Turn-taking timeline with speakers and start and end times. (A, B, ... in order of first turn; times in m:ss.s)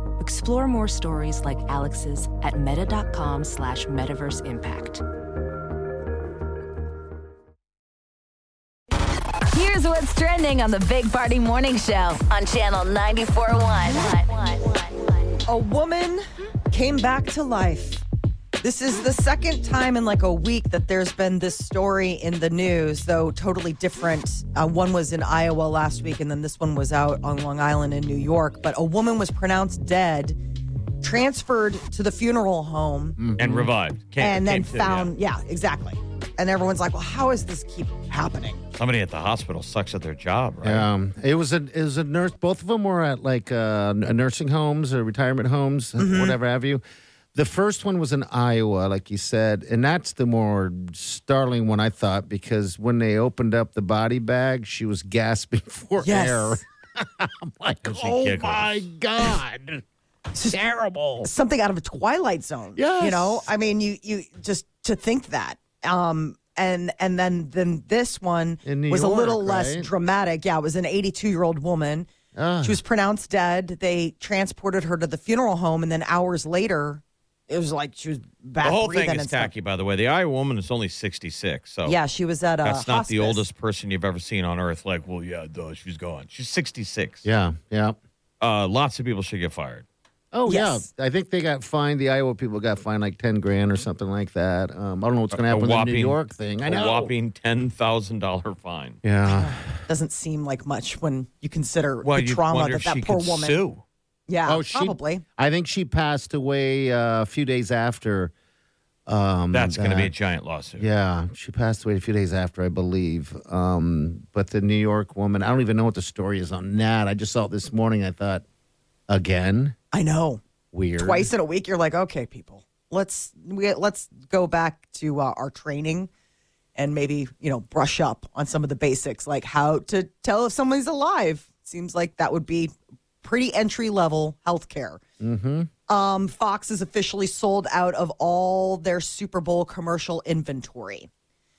0:00.2-0:05.0 A
0:09.5-0:15.0 B
0:15.5-0:18.0 C
0:18.6-0:30.4 C
0:31.0-0:33.2 C
0:33.2-0:33.7 D
0:33.4-0:35.1 E
0:34.2-0:38.6 C
0:38.8-0:40.9 E
0:40.6-0:46.8 D
0:46.0-0:46.4 C
0:47.3-0:59.8 D
0:56.0-0:56.6 C
0:57.8-0:58.9 E
1:00.3-1:00.6 C
1:00.5-1:01.3 D
1:01.2-1:12.1 C
1:02.8-1:03.5 D
1:08.6-1:09.9 D
1:12.3-1:12.8 D
1:12.6-1:19.5 C
1:18.6-1:22.0 E
1:21.8-1:23.4 C
1:22.6-1:27.2 E
1:27.2-1:28.0 D
1:28.4-1:29.8 E
1:30.3-1:37.1 D
1:30.4-1:30.9 C
1:35.3-1:39.0 E
1:39.0-1:39.8 D
1:39.7-1:43.6 C
1:42.0-1:43.8 E
1:44.3-1:45.2 C
1:44.4-1:48.3 D
1:49.1-1:50.1 D
1:49.5-1:50.8 E
1:50.8-1:58.4 D
1:59.1-1:59.8 D
1:59.9-2:00.4 C
2:00.7-2:01.3 D
2:01.0-2:06.1 C
2:06.8-2:15.0 C
2:15.2-2:15.7 D
2:15.9-2:21.1 C